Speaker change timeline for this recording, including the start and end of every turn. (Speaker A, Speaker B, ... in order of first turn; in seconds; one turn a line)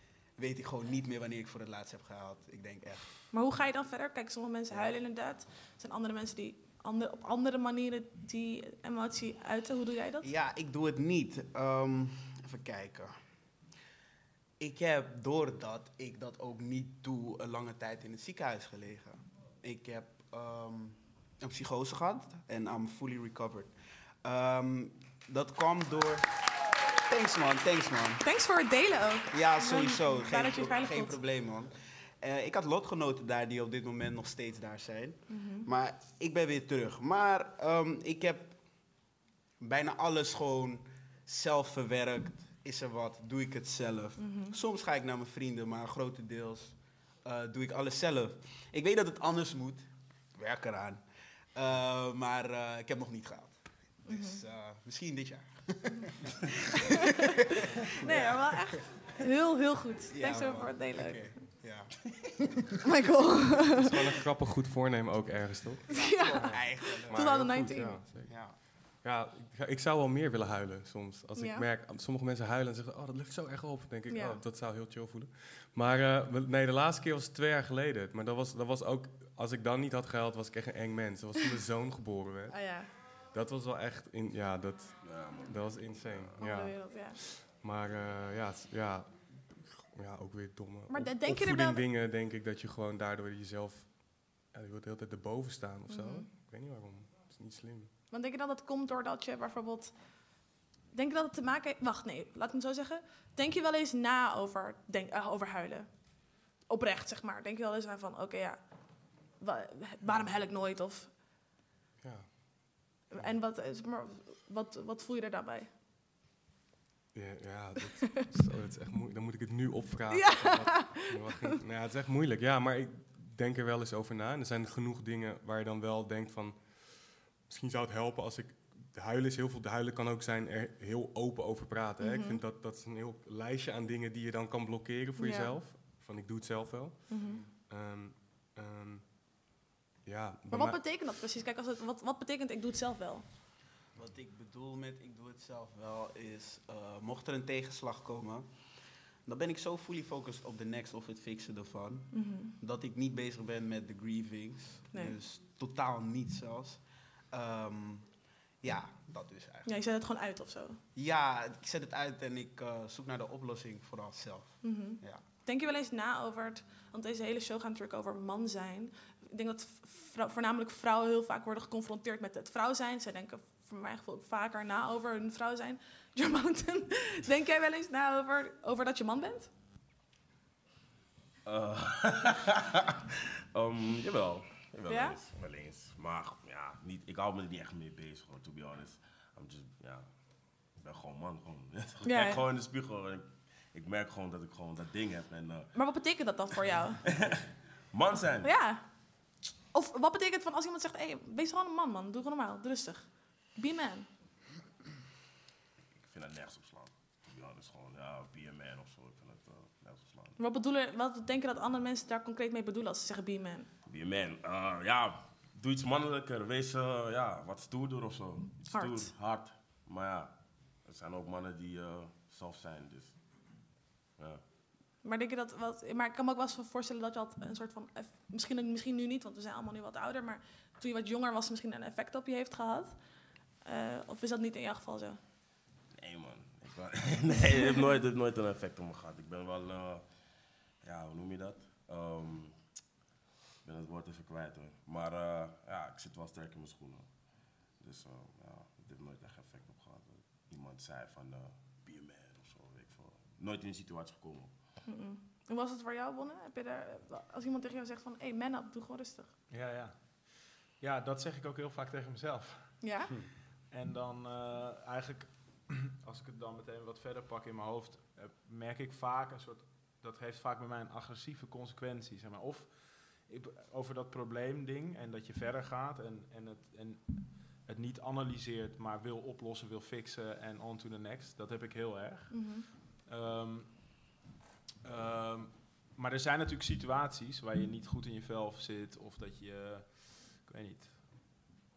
Speaker A: 0.4-3.1
Speaker B: 3.3-10.2
Speaker A: 10.2-13.1
Speaker A: 14.6-23.7
Speaker A: 24.2-26.3
Speaker A: 27.1-28.2
Speaker B: 28.2-31.2
Speaker A: 29.3-38.6
Speaker B: 35.3-35.7
Speaker A: 39.6-51.0
Speaker B: 44.2-44.5
Speaker A: 51.5-58.8
Speaker B: 54.1-54.4
Speaker B: 58.0-61.2
Speaker A: 60.1-62.7
Speaker B: 62.8-63.9
Speaker C: 63.6-68.3
Speaker A: 65.9-68.5
Speaker B: 65.9-68.0
Speaker C: 68.9-97.9
Speaker B: 71.3-71.7
Speaker B: 74.1-74.4
Speaker B: 82.5-82.9
Speaker D: 85.0-86.3
Speaker B: 86.4-87.2
Speaker B: 90.9-91.8
Speaker B: 95.9-96.3
Speaker B: 98.1-99.9
Speaker B: 100.9-105.9
Speaker B: 106.7-108.6
Speaker B: 109.4-111.1
Speaker C: 112.0-112.4
Speaker B: 113.1-115.7
Speaker C: 117.1-139.1
Speaker B: 120.1-121.5
Speaker B: 132.0-132.4
Speaker B: 135.2-135.6
Speaker B: 137.1-137.4
Speaker C: 140.0-140.8
Speaker B: 140.5-143.2
Speaker A: 143.9-148.5
Speaker A: 149.2-156.8
Speaker B: 152.1-152.5
Speaker A: 157.3-158.1
Speaker A: 158.6-159.7
Speaker B: 159.7-160.8
Speaker A: 160.9-165.2
Speaker B: 164.6-179.5
Speaker D: 181.4-182.9
Speaker D: 183.5-190.1
Speaker B: 184.9-185.2
Speaker D: 190.8-195.7
Speaker B: 192.0-192.4
Speaker B: 195.7-197.0
Speaker D: 197.0-198.5
Speaker B: 198.4-198.8
Speaker B: 199.7-204.1
Speaker D: 206.0-210.3
Speaker B: 210.4-213.7
Speaker D: 213.9-223.2
Speaker B: 218.7-219.1
Speaker D: 224.2-224.4
Speaker B: 225.0-232.9
Speaker B: 233.6-235.2
Speaker D: 236.0-240.0
Speaker D: 240.8-242.6
Speaker D: 243.6-247.1
Speaker D: 247.8-254.5
Speaker B: 254.9-259.3
Speaker E: 259.5-262.8
Speaker B: 262.8-263.1
Speaker E: 263.7-284.0
Speaker B: 282.3-282.6
Speaker E: 284.8-291.5